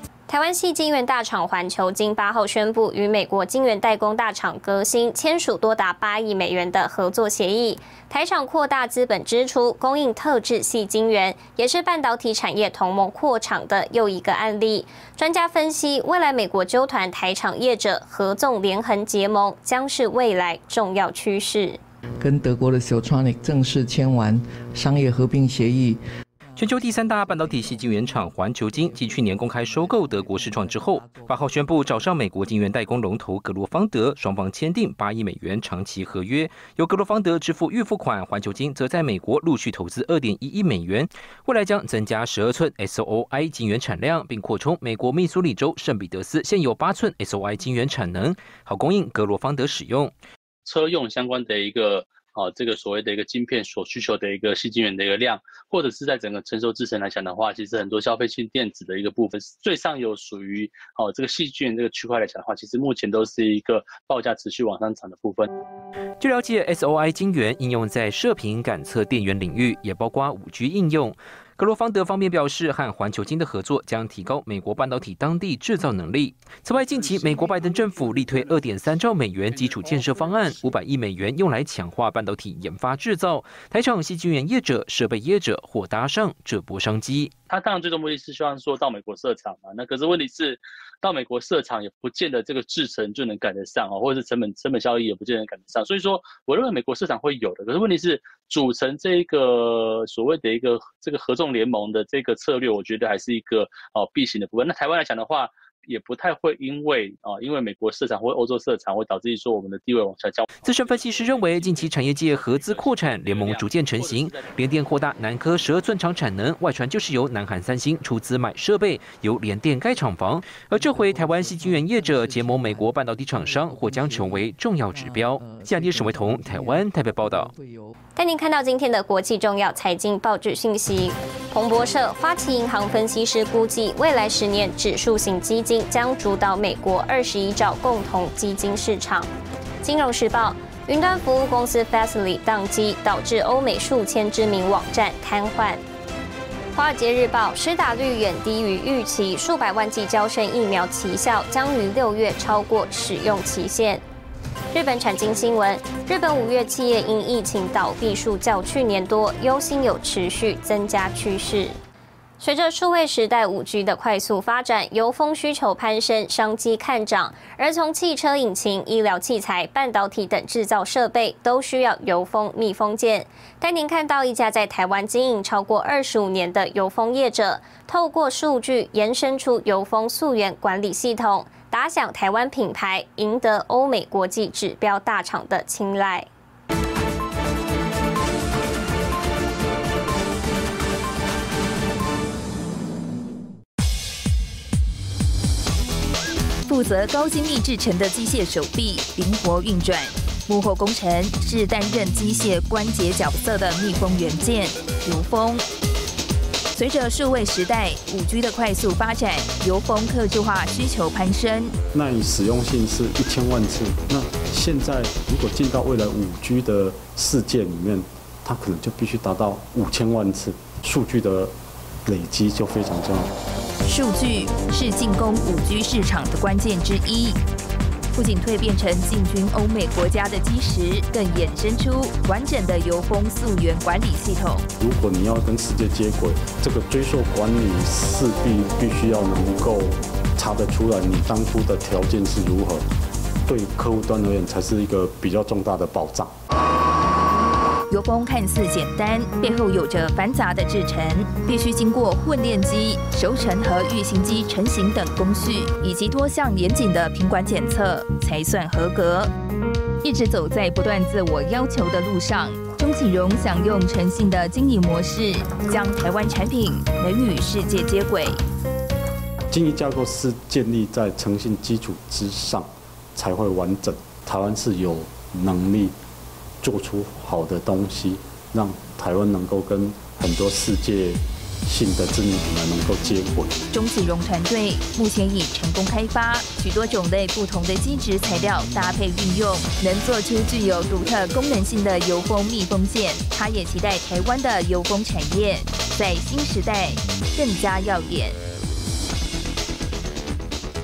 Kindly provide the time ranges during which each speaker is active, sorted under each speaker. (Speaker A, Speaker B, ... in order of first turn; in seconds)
Speaker A: 0.3-21.8, 128.2-139.3, 139.8-145.8, 146.8-154.0, 154.7-161.8, 162.4-186.3
Speaker B: 22.2-32.9, 120.8-127.9
Speaker C: 26.6-50.1, 66.2-87.3, 110.6-127.5
Speaker D: 50.7-65.5, 76.8-78.4, 79.6-80.5, 87.5-114.7
Speaker E: 196.7-205.7, 206.7-211.8, 223.8-227.4, 228.1-234.7, 247.9-259.3, 260.0-268.4, 283.7-298.4
Speaker F: 211.9-221.5, 222.1-223.3, 234.8-242.9, 243.5-246.3, 269.5-276.0, 276.6-283.7